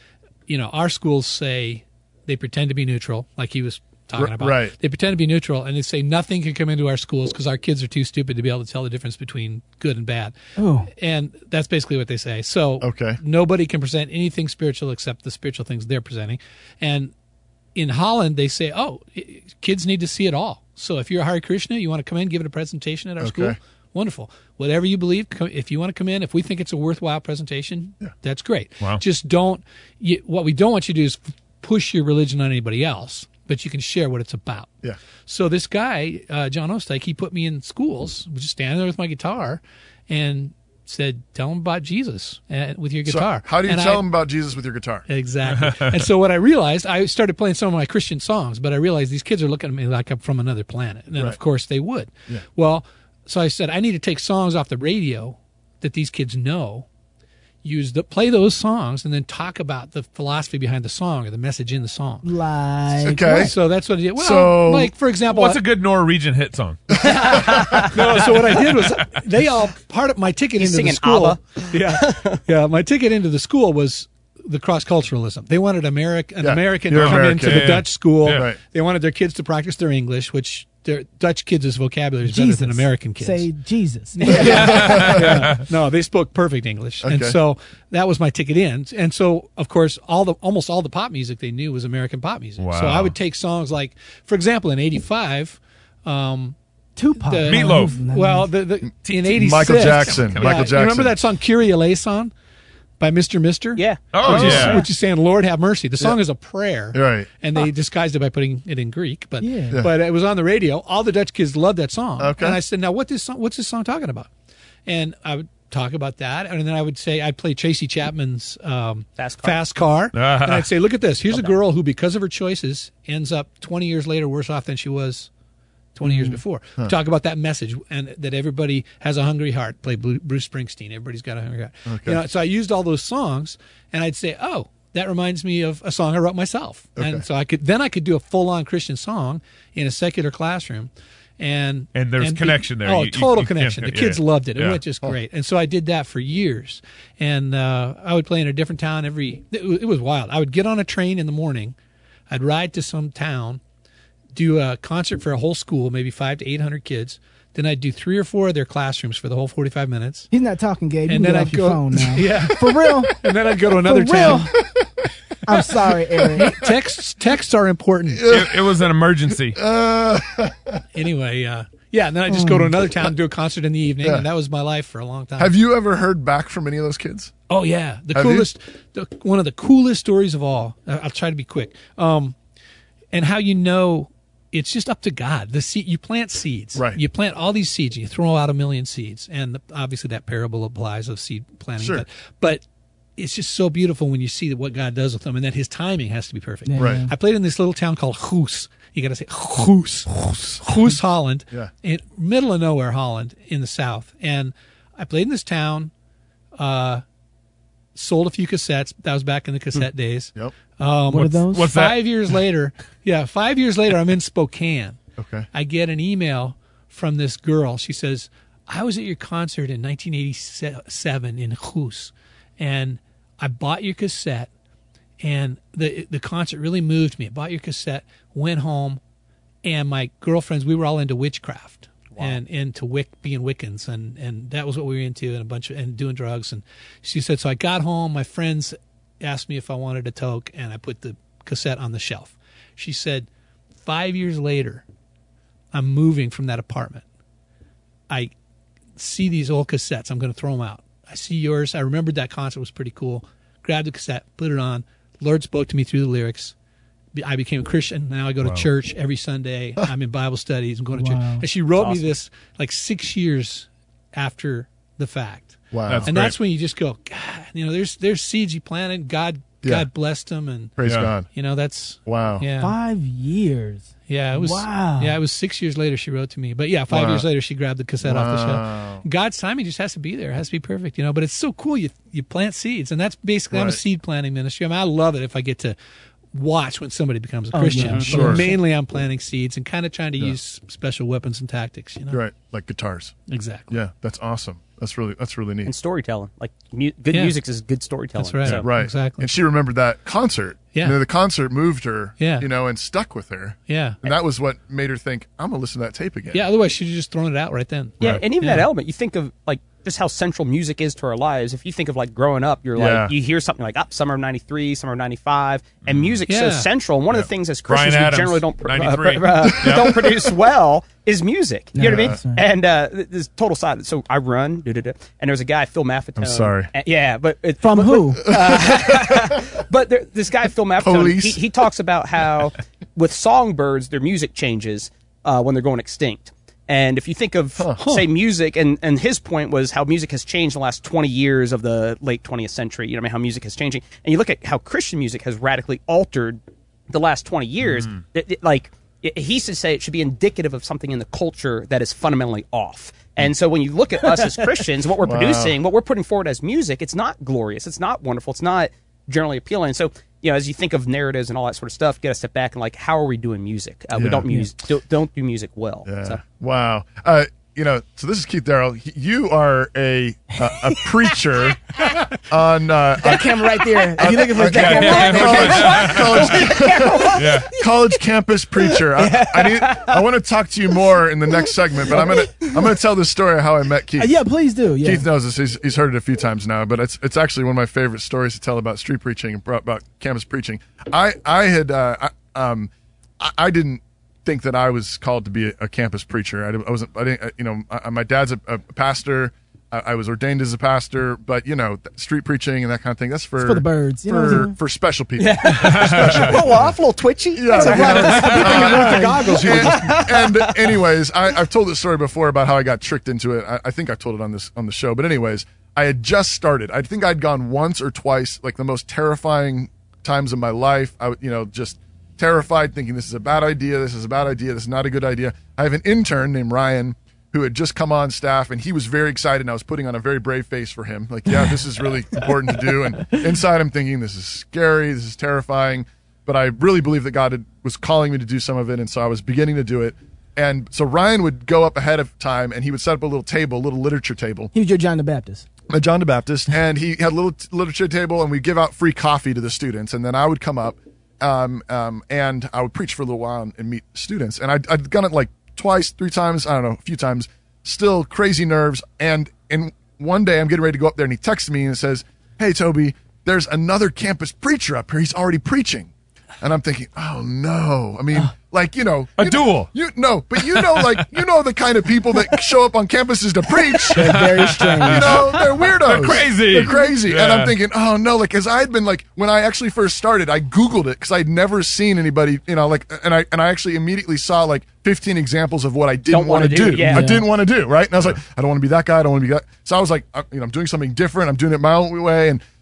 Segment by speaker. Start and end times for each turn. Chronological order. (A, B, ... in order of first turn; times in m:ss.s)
0:00.5-0:10.3 A
0:04.1-0:04.7 B
0:10.6-0:10.9 C
0:10.9-0:17.1 A
0:12.8-0:13.2 B
0:17.7-0:34.7 A
0:23.2-0:23.6 B
0:35.2-0:44.0 A
0:43.0-0:45.1 B
0:45.1-0:56.9 A
0:45.4-0:46.0 D
0:57.6-1:02.2 A
1:02.2-1:03.5 C
1:03.0-1:03.6 B
1:03.1-1:05.6 A
1:04.2-1:04.9 B
1:05.3-1:07.5 D
1:06.9-1:23.5 A
1:07.0-1:07.9 B
1:10.6-1:12.4 E
1:16.4-1:18.6 B
1:16.9-1:18.4 D
1:22.2-1:25.1 C
1:24.1-1:36.6 A
1:24.3-1:25.5 B
1:24.8-1:25.6 D
1:27.0-1:27.4 B
1:32.6-1:33.1 D
1:37.0-1:38.5 C
1:37.2-1:42.3 A
1:37.5-1:38.0 D
1:38.8-1:41.2 B
1:39.0-1:40.8 D
1:43.0-1:54.3 A
1:43.8-1:44.7 E
1:44.1-1:44.8 D
1:44.2-1:44.8 B
1:46.9-1:47.3 B
1:49.4-1:49.8 C
1:52.2-1:52.6 B
1:54.8-2:05.3 A
1:59.2-1:59.6 E
2:00.1-2:00.7 D
2:01.3-2:01.6 E
2:05.9-2:31.8 A
2:06.0-2:06.9 B
2:11.8-2:12.2 B
2:17.0-2:17.2 B
2:21.9-2:24.8 D
2:32.3-2:33.6 A
2:34.3-2:40.3 A
2:40.3-2:43.2 C
2:41.1-2:44.6 A
2:43.8-2:44.5 C
2:45.4-2:46.6 C
2:46.3-2:48.3 A
2:46.4-2:46.7 B
2:48.1-2:50.8 B
2:48.2-2:49.6 D
2:50.9-2:55.5 A
2:52.3-2:52.7 C
2:54.0-2:54.3 B
2:55.4-2:57.3 B
2:57.5-3:02.4 A
2:58.1-2:58.5 B
3:03.1-3:12.6 A
3:06.7-3:07.0 B
3:11.8-3:12.0 B
3:13.2-3:25.9 A
3:16.7-3:17.1 C
3:16.8-3:17.1 B
3:26.6-3:27.0 A
3:27.9-3:35.0 A
3:31.1-3:31.7 C
3:31.5-3:32.0 D
3:35.2-3:35.5 B
3:35.5-3:44.5 A
3:45.2-3:49.0 A
3:49.6-4:03.3 A
4:03.8-4:04.8 A
4:05.7-4:07.0 A
4:09.0-4:16.5 A
4:17.1-4:32.8 A
4:18.4-4:18.7 D
4:20.9-4:21.4 C
4:21.8-4:22.1 E
4:25.7-4:26.2 B
4:25.9-4:26.3 D
4:30.8-4:31.3 B
4:30.8-4:31.1 D
4:32.0-4:32.4 B
4:32.6-4:35.2 C
4:34.1-4:45.8 A
4:36.9-4:37.3 B
4:38.0-4:39.0 B
4:43.5-4:43.8 B
4:46.3-4:52.2 A
4:47.5-4:48.6 C
4:47.9-4:48.5 B
4:52.1-4:53.2 B
4:53.3-4:53.8 A
4:53.7-4:55.7 B
4:55.6-4:58.7 E
4:57.1-4:57.4 A
4:58.2-4:59.3 A
4:58.5-5:06.4 B
5:00.7-5:01.0 A
5:02.2-5:02.5 A
5:03.7-5:04.0 A
5:06.3-5:08.7 A
5:08.0-6:06.2 E
5:12.7-5:13.1 B
5:15.8-5:16.2 D
5:16.3-5:16.7 A
5:17.6-5:20.1 D
5:21.7-5:22.4 C
5:21.8-5:22.2 B
5:26.2-5:26.7 B
5:27.6-5:28.2 C
5:28.3-5:29.4 B
5:30.8-5:31.4 B
5:37.8-5:38.0 A
5:47.6-5:48.0 D
5:55.0-5:55.6 B
6:03.9-6:04.3 B
6:05.8-6:24.1 B
6:13.0-6:17.2 C
6:14.4-6:16.5 D
6:17.1-6:17.5 D
6:19.0-6:20.0 E
6:21.9-6:22.5 C
6:24.0-6:25.0 C
6:24.8-6:46.7 B
6:43.4-6:44.5 C
6:45.2-6:50.8 E
6:45.5-6:46.4 D
6:47.3-7:24.5 B
6:47.5-6:49.3 C
6:47.7-6:50.0 A
7:24.5-7:25.4 C
7:25.7-7:54.2 B
7:49.2-7:49.7 D
7:50.4-7:51.0 D
7:53.8-7:57.6 D
7:53.9-7:55.3 C
7:54.8-8:12.4 B
8:06.1-8:07.1 E
8:06.8-8:07.2 C